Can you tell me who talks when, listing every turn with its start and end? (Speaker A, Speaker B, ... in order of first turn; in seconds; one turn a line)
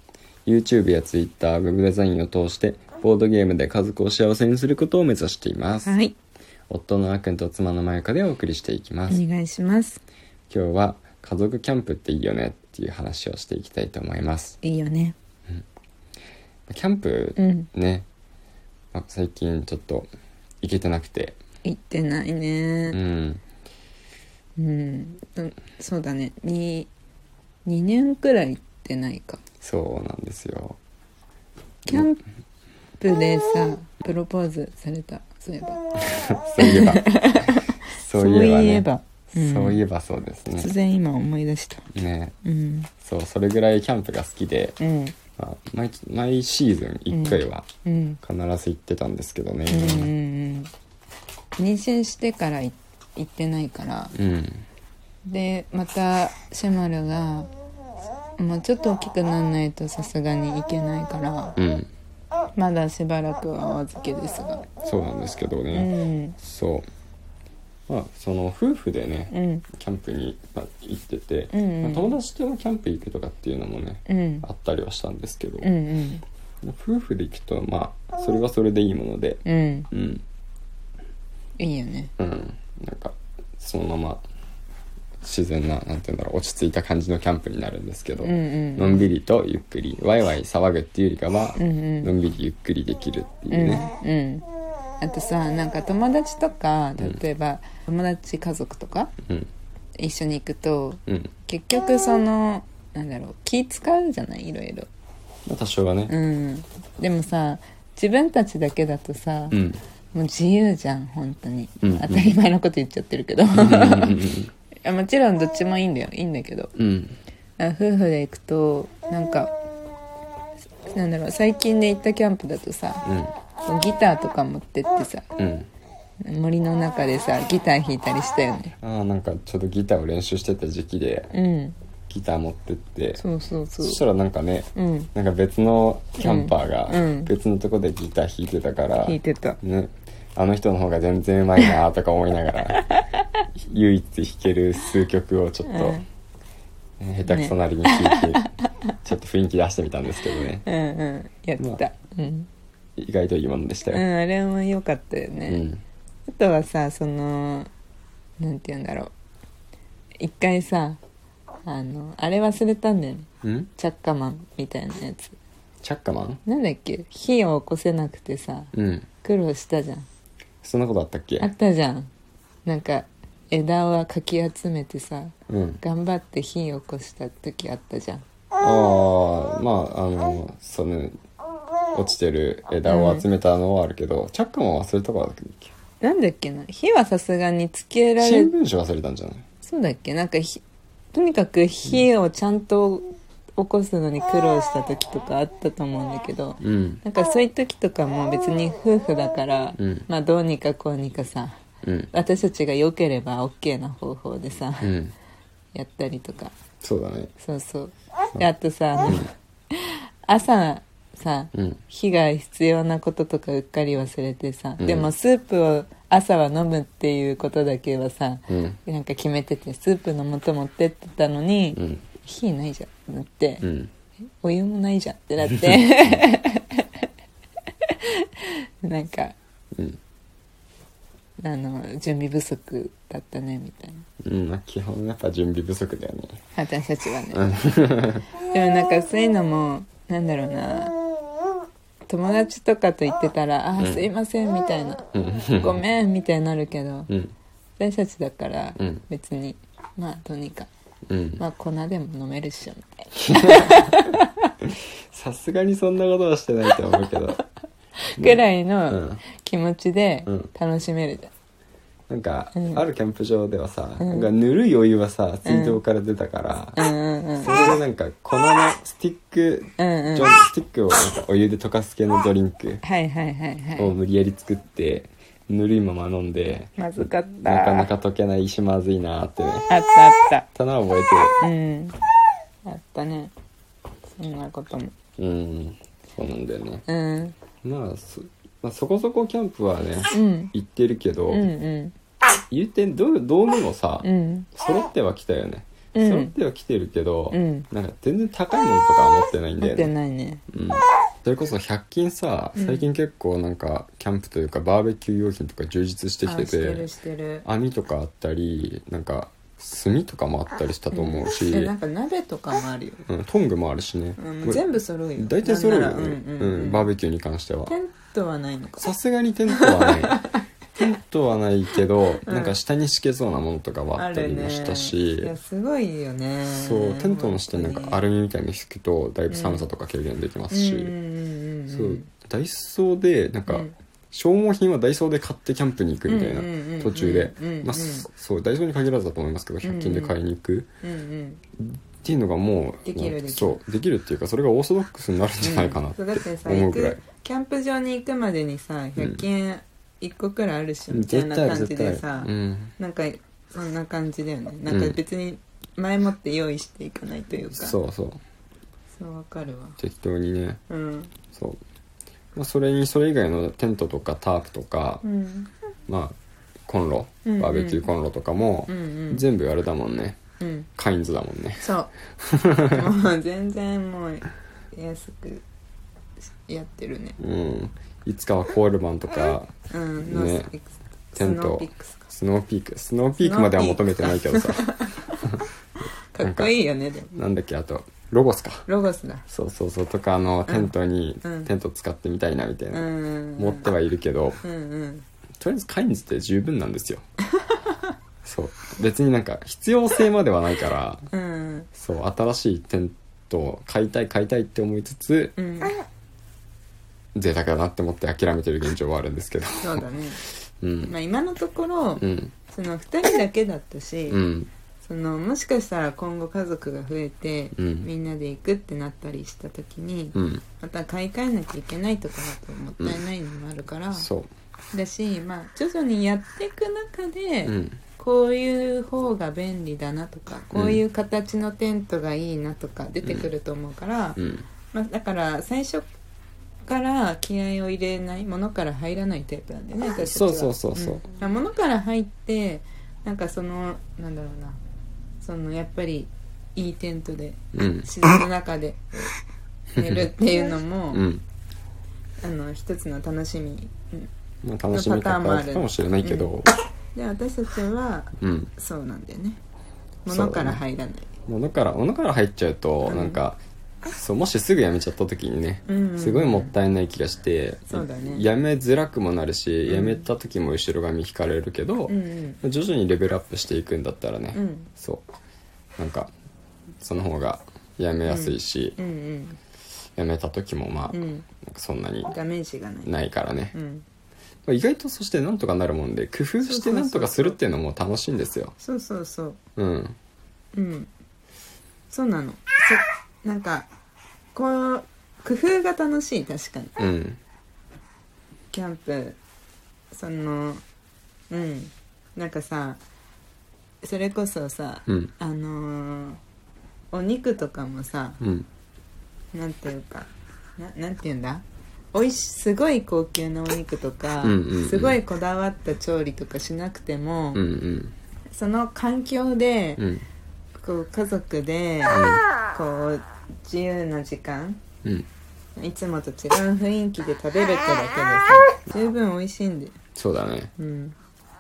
Speaker A: 0.5-6.0
Speaker B: 5.8-6.1
Speaker A: 6.7-9.2
Speaker B: 9.1-10.0
Speaker A: 10.5-14.6
Speaker B: 14.6-15.2
Speaker A: 16.7-18.1
Speaker B: 17.4-17.7
Speaker A: 18.9-20.1
Speaker A: 20.6-21.4
Speaker B: 21.6-23.0
Speaker A: 22.9-23.4
Speaker B: 24.6-26.9
Speaker B: 27.7-29.4
Speaker A: 29.6-30.8
Speaker B: 31.9-32.2
Speaker B: 33.0-35.8
Speaker A: 36.1-37.1
Speaker B: 36.6-39.8
Speaker A: 38.0-40.7
Speaker B: 40.5-41.9
Speaker A: 41.9-42.3
Speaker B: 42.4-42.9
Speaker A: 43.0-44.8
Speaker B: 44.8-45.1
Speaker A: 45.4-47.7
Speaker B: 47.1-48.2
Speaker A: 48.2-50.1
Speaker B: 49.7-50.7
Speaker B: 51.6-54.1
Speaker A: 54.1-54.6
Speaker B: 55.3-57.5
Speaker B: 58.4-61.6
Speaker A: 61.6-61.9
Speaker B: 62.5-64.7
Speaker A: 64.8-65.9
Speaker B: 65.7-66.4
Speaker A: 66.4-66.8
Speaker A: 67.9-75.7
Speaker B: 69.3-69.6
Speaker B: 71.5-72.1
Speaker B: 74.1-74.5
Speaker B: 75.6-76.2
Speaker A: 76.6-80.2
Speaker B: 79.4-79.9
Speaker B: 81.6-82.1
Speaker A: 82.2-84.2
Speaker A: 85.2-93.9
Speaker B: 88.2-89.1
Speaker B: 91.6-92.1
Speaker B: 93.5-94.5
Speaker B: 95.0-99.1
Speaker B: 100.0-104.9
Speaker A: 101.1-101.3
Speaker A: 105.5-106.1
Speaker B: 106.1-109.6
Speaker A: 109.5-109.8
Speaker B: 110.1-114.2
Speaker A: 111.8-112.3
Speaker A: 113.5-114.5
Speaker B: 114.8-116.7
Speaker A: 116.8-117.2
Speaker B: 117.6-119.5
Speaker B: 120.9-123.0
Speaker A: 123.0-123.3
Speaker B: 123.6-125.3
Speaker A: 125.4-125.7
Speaker B: 126.2-128.7
Speaker A: 128.8-131.3
Speaker B: 131.3-131.8
Speaker A: 132.1-133.2
Speaker B: 133.2-134.0
Speaker A: 133.8-142.8
Speaker B: 134.8-135.1
Speaker B: 136.2-137.3
Speaker B: 139.0-139.6
Speaker B: 142.8-143.2
Speaker A: 143.6-146.0
Speaker B: 145.7-146.1
Speaker A: 147.0-148.4
Speaker B: 147.2-148.9
Speaker A: 149.1-150.7
Speaker B: 150.6-152.5
Speaker A: 153.0-154.0
Speaker B: 153.9-155.6
Speaker A: 155.5-155.8
Speaker B: 156.3-157.7
Speaker B: 158.4-159.1
Speaker B: 160.2-161.0
Speaker B: 161.7-165.3
Speaker A: 163.4-163.7
Speaker A: 165.8-166.4
Speaker B: 166.4-170.1
Speaker A: 168.7-169.1
Speaker A: 170.6-171.5
Speaker B: 171.4-172.1
Speaker B: 172.7-178.2
Speaker A: 175.5-175.8
Speaker A: 178.6-181.2
Speaker A: 181.9-185.7
Speaker B: 182.9-183.2
Speaker B: 186.0-188.5
Speaker A: 188.2-189.4
Speaker B: 189.6-190.6
Speaker B: 191.1-201.6
Speaker A: 196.6-197.0
Speaker A: 199.8-200.1
Speaker A: 201.8-202.1
Speaker B: 202.1-204.9
Speaker A: 204.8-205.1
Speaker B: 205.7-206.5
Speaker A: 206.8-207.3
Speaker B: 207.4-223.7
Speaker A: 211.5-211.8
Speaker A: 214.8-215.1
Speaker A: 218.5-218.8
Speaker A: 221.8-222.1
Speaker A: 223.6-223.9
Speaker B: 224.4-227.1
Speaker A: 225.6-226.2
Speaker B: 227.8-229.3
Speaker B: 231.4-234.1
Speaker A: 234.2-236.4
Speaker B: 236.6-237.5
Speaker A: 237.3-238.3
Speaker B: 238.4-240.9
Speaker B: 242.1-245.1
Speaker A: 243.8-244.1
Speaker A: 245.1-245.8
Speaker B: 245.6-247.1
Speaker A: 247.1-247.3
Speaker B: 247.8-250.7
Speaker A: 248.8-249.0
Speaker A: 251.1-251.4
Speaker B: 251.4-254.5
Speaker A: 253.2-253.9
Speaker A: 254.7-257.4
Speaker B: 258.1-261.3
Speaker A: 258.2-259.2
Speaker A: 262.1-266.8
Speaker B: 262.5-262.8
Speaker B: 264.0-264.3
Speaker B: 265.4-265.8
Speaker B: 266.8-267.8
Speaker A: 267.4-272.8
Speaker B: 269.8-270.4
Speaker B: 272.8-273.9
Speaker A: 273.8-279.7
Speaker B: 276.8-277.9
Speaker B: 279.7-280.5
Speaker A: 280.6-281.4
Speaker B: 281.4-282.0
Speaker B: 282.6-283.3
Speaker B: 284.2-284.9
Speaker A: 285.2-286.8
Speaker B: 286.9-287.4
Speaker A: 287.6-291.5
Speaker B: 290.1-290.5
Speaker B: 291.3-291.9
Speaker A: 292.5-299.9
Speaker B: 294.0-294.5
Speaker B: 295.9-296.3
Speaker B: 297.3-297.7
Speaker B: 299.6-300.4
Speaker A: 300.5-306.9
Speaker B: 302.6-302.9
Speaker B: 306.2-307.4
Speaker A: 307.4-311.7
Speaker B: 310.9-313.0
Speaker A: 313.1-317.8
Speaker B: 314.2-316.9
Speaker B: 317.7-318.9
Speaker A: 318.8-320.2
Speaker B: 319.5-320.2
Speaker A: 320.8-325.3
Speaker B: 322.3-322.6
Speaker B: 323.9-328.0
Speaker A: 326.5-330.9
Speaker B: 329.3-329.7
Speaker B: 330.5-332.1
Speaker A: 331.7-340.7
Speaker B: 333.5-333.8
Speaker B: 336.1-338.1
Speaker B: 339.6-340.2
Speaker B: 340.8-341.4
Speaker A: 341.6-347.0
Speaker B: 342.9-343.6
Speaker B: 345.4-357.8
Speaker A: 349.0-349.2
Speaker A: 350.9-352.8
Speaker A: 354.7-355.0
Speaker A: 357.5-358.2
Speaker B: 358.9-359.8
Speaker A: 359.8-360.6
Speaker B: 360.7-361.1
Speaker A: 361.3-361.6
Speaker A: 362.4-365.0
Speaker B: 365.0-365.5
Speaker A: 365.9-370.2
Speaker B: 367.2-367.9
Speaker B: 368.7-369.2
Speaker B: 370.4-370.7
Speaker A: 370.8-372.9
Speaker B: 371.6-371.9
Speaker B: 372.7-375.4
Speaker B: 376.4-377.2
Speaker A: 377.2-380.5
Speaker B: 379.7-382.1
Speaker A: 381.2-384.7
Speaker B: 383.2-385.1
Speaker B: 386.1-387.1
Speaker A: 386.2-386.6
Speaker A: 387.1-388.7
Speaker B: 388.7-389.2
Speaker A: 389.3-394.4
Speaker B: 390.5-391.5
Speaker B: 392.7-393.7
Speaker B: 394.4-395.1
Speaker A: 395.4-397.0
Speaker A: 398.2-401.1
Speaker B: 401.1-401.7
Speaker A: 401.8-405.4
Speaker B: 405.4-405.8
Speaker A: 407.1-409.8
Speaker B: 409.6-410.2
Speaker A: 410.6-410.9
Speaker B: 410.9-414.2
Speaker A: 412.0-412.4
Speaker A: 414.1-414.5
Speaker B: 414.8-424.1
Speaker A: 417.6-417.9
Speaker A: 420.1-420.4
Speaker A: 423.9-424.3
Speaker B: 424.7-434.2
Speaker A: 427.4-427.8
Speaker A: 430.5-430.8
Speaker A: 433.0-433.3
Speaker A: 434.2-434.5
Speaker B: 434.7-435.9
Speaker B: 436.7-444.6
Speaker A: 440.0-441.0
Speaker B: 445.2-449.2
Speaker A: 447.5-447.9
Speaker B: 449.8-451.1
Speaker A: 449.8-450.1
Speaker A: 450.9-451.2
Speaker B: 452.2-454.1
Speaker A: 454.4-456.5
Speaker B: 454.7-456.3
Speaker B: 456.9-459.4
Speaker A: 458.2-458.5
Speaker B: 460.1-461.1
Speaker A: 460.1-460.6
Speaker A: 461.3-463.4
Speaker B: 462.9-463.2
Speaker A: 463.9-475.0
Speaker B: 465.7-466.5
Speaker B: 467.7-468.2
Speaker B: 469.7-470.1
Speaker B: 471.9-472.4
Speaker B: 474.3-474.7
Speaker A: 475.8-476.1
Speaker A: 476.8-478.8
Speaker B: 478.1-479.4
Speaker A: 479.9-482.1
Speaker B: 480.9-481.2
Speaker B: 482.1-482.9
Speaker A: 482.9-483.6
Speaker B: 483.5-483.8
Speaker A: 484.4-488.6
Speaker B: 486.4-487.4
Speaker B: 488.6-489.4
Speaker A: 489.6-489.9
Speaker B: 490.5-490.9
Speaker B: 491.9-493.7
Speaker B: 494.3-496.8
Speaker A: 496.8-497.2
Speaker B: 498.5-499.2
Speaker B: 499.9-500.6
Speaker B: 501.3-502.8
Speaker B: 503.8-506.2
Speaker A: 504.9-505.1
Speaker B: 506.9-508.2
Speaker A: 508.2-508.5
Speaker B: 509.3-517.4
Speaker A: 514.2-515.0
Speaker A: 517.3-518.0
Speaker B: 518.3-519.8
Speaker A: 519.8-520.1
Speaker B: 520.5-524.6
Speaker A: 521.9-522.2
Speaker B: 525.6-529.8
Speaker A: 530.0-530.5
Speaker B: 530.6-531.0